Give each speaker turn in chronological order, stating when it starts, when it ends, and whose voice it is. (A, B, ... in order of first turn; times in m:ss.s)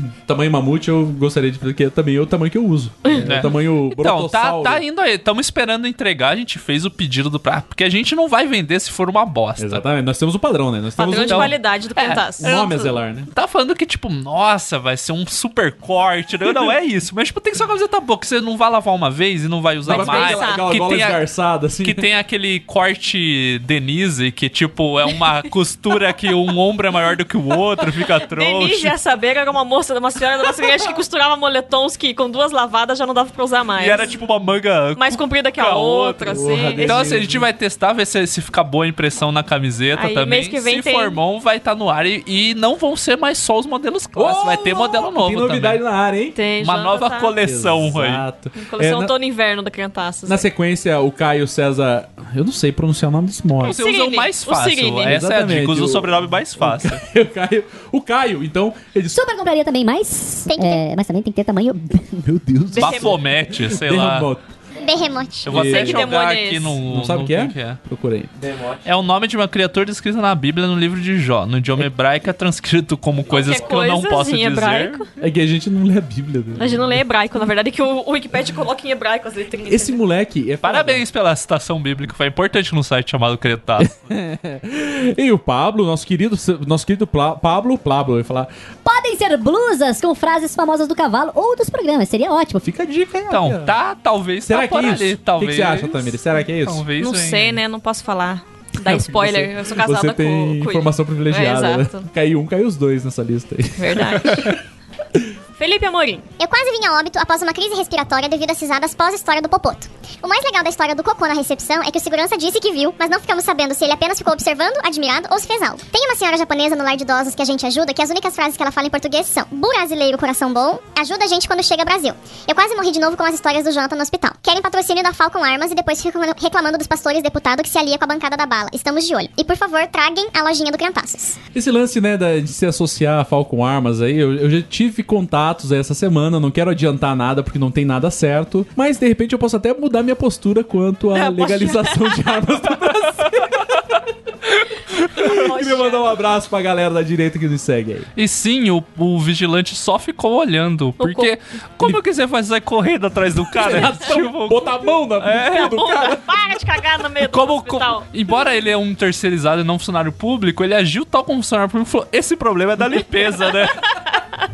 0:00.2-0:04.8 A
0:03.2-0:09.8 B
0:09.6-0:11.6 A
0:11.0-0:13.0 C
0:11.1-0:12.5 B
0:12.4-0:13.3 A
0:13.3-0:21.2 B
0:19.9-0:22.1 A
0:19.9-0:20.7 C
0:21.8-0:29.0 B
0:28.3-0:34.1 C
0:33.8-0:45.8 B
0:35.0-0:37.1 C
0:36.3-0:37.5 A
0:39.9-0:41.2 C
0:44.2-0:46.4 A
0:46.4-0:47.4 C
0:46.6-0:48.3 B
0:47.4-0:49.1 A
0:48.6-0:50.4 C
0:50.3-0:53.8 A
0:53.6-0:55.1 C
0:53.6-0:57.0 B
0:55.0-0:59.2 A
0:59.1-1:02.2 D
1:00.5-1:00.8 E
1:02.2-1:04.5 A
1:02.8-1:03.2 C
1:02.8-1:04.3 B
1:04.8-1:05.6 E
1:05.4-1:07.8 B
1:05.5-1:06.1 A
1:05.5-1:06.8 C
1:06.9-1:08.5 A
1:08.8-1:15.0 B
1:13.3-1:15.1 C
1:15.2-1:17.0 A
1:16.6-1:20.0 C
1:19.7-1:21.0 A
1:20.6-1:24.1 B
1:23.8-1:28.5 A
1:28.8-1:32.6 D
1:32.6-1:33.8 A
1:33.3-1:37.6 B
1:34.4-1:36.8 A
1:37.0-1:42.1 C
1:38.8-1:44.6 A
1:43.8-1:44.6 C
1:45.6-1:46.3 C
1:46.4-2:11.4 E
2:11.5-2:23.8 A
2:21.2-2:22.2 C
2:25.1-2:28.1 A
2:25.2-2:26.1 C
2:28.2-2:35.8 B
2:31.0-2:31.3 C
2:33.5-2:36.2 A
2:35.5-2:38.1 C
2:37.2-2:43.9 B